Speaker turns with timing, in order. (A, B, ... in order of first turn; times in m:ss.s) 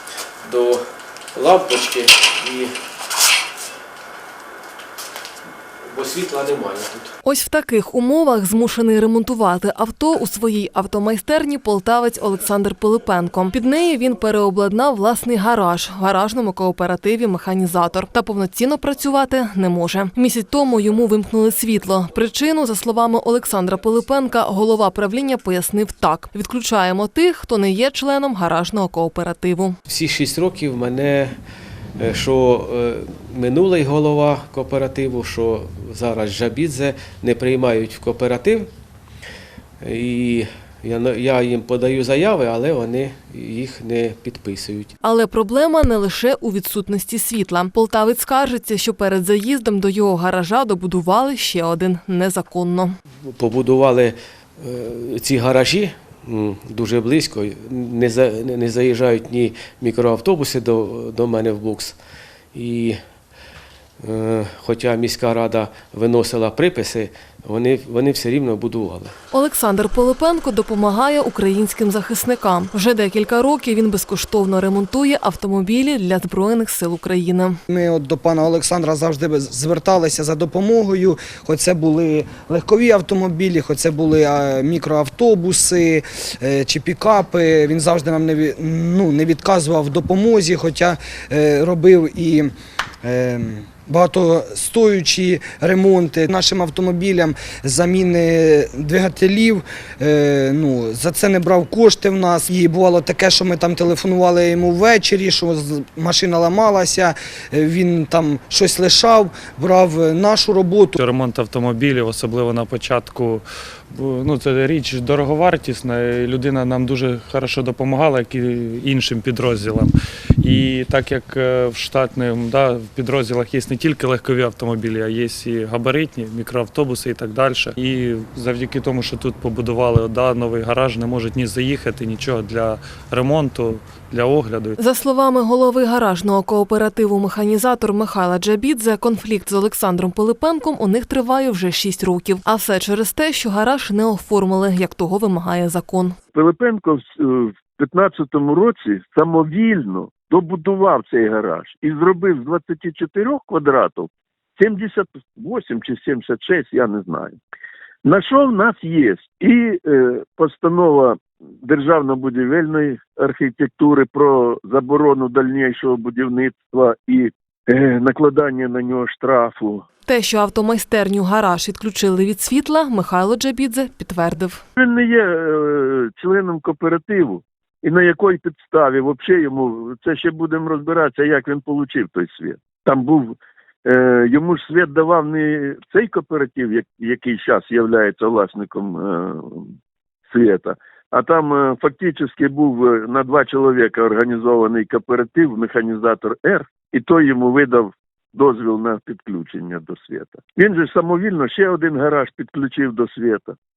0:00.4-0:02.8 A
0:05.8-0:07.1 A
0:07.2-0:29.8 B
0:29.9-0:31.3 A
0:32.0-0:38.7 A
0:39.8-0:44.9 A
0:45.0-0:53.0 B
0:53.3-1:02.0 A
1:02.5-1:03.0 A
1:04.0-1:09.1 A
1:09.3-1:17.6 B
1:17.7-1:32.5 C
1:33.0-1:51.0 C
1:51.0-2:14.8 D
2:14.8-2:26.2 B
2:26.3-2:37.4 E
2:38.0-2:49.8 E
2:50.0-2:54.6 B
2:54.8-3:09.7 E
3:10.3-3:23.5 E